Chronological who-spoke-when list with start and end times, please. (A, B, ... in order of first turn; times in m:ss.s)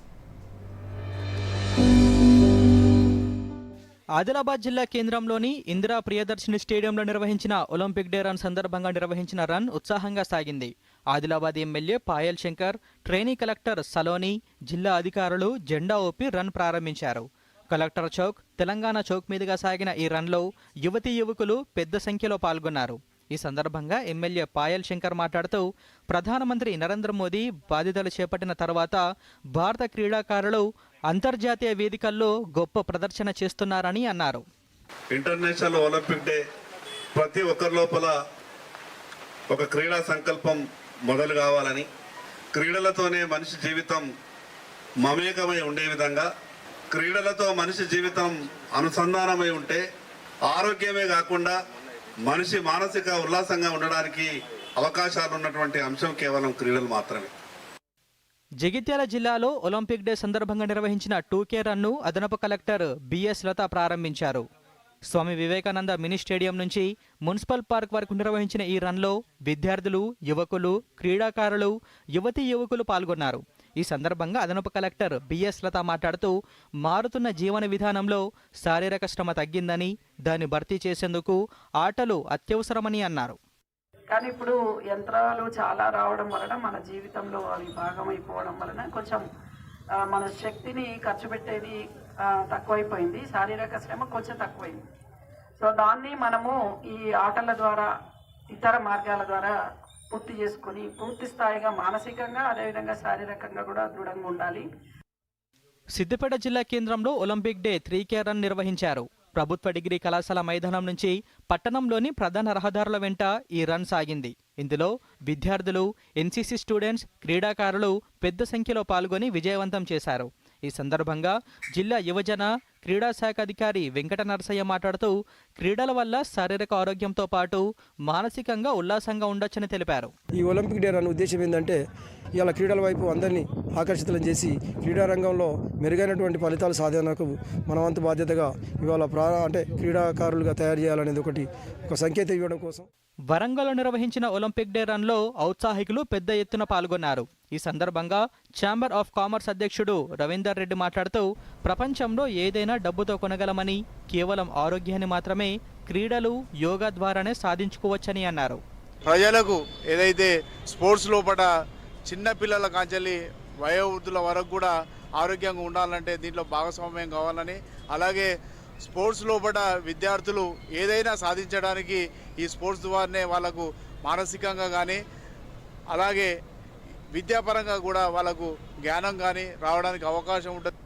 0:04.2-0:29.0 A
0:29.5-0:34.4 A
0:35.1-0:36.4 B
0:37.1-0:38.1 B
0:39.5-0:41.9 B
0:42.5-0:44.1 B
0:45.0-0:46.3 B
0:46.9-0:49.8 B
0:50.5-0:51.6 B
0:52.2-0:57.3 B
0:58.6-1:04.4 A
1:05.1-1:16.3 A
1:16.8-1:23.4 A
1:24.1-1:29.2 C
1:30.1-1:34.8 C
1:35.6-1:37.9 C
1:38.5-1:39.5 C
1:40.1-1:44.6 C
1:46.0-2:10.1 A
2:10.4-2:11.8 D
2:12.4-2:22.8 D
2:23.3-2:38.6 A
2:39.0-2:41.5 E
2:42.1-2:48.3 E
2:48.8-2:55.0 E
2:55.9-2:56.3 E
2:57.1-3:00.7 E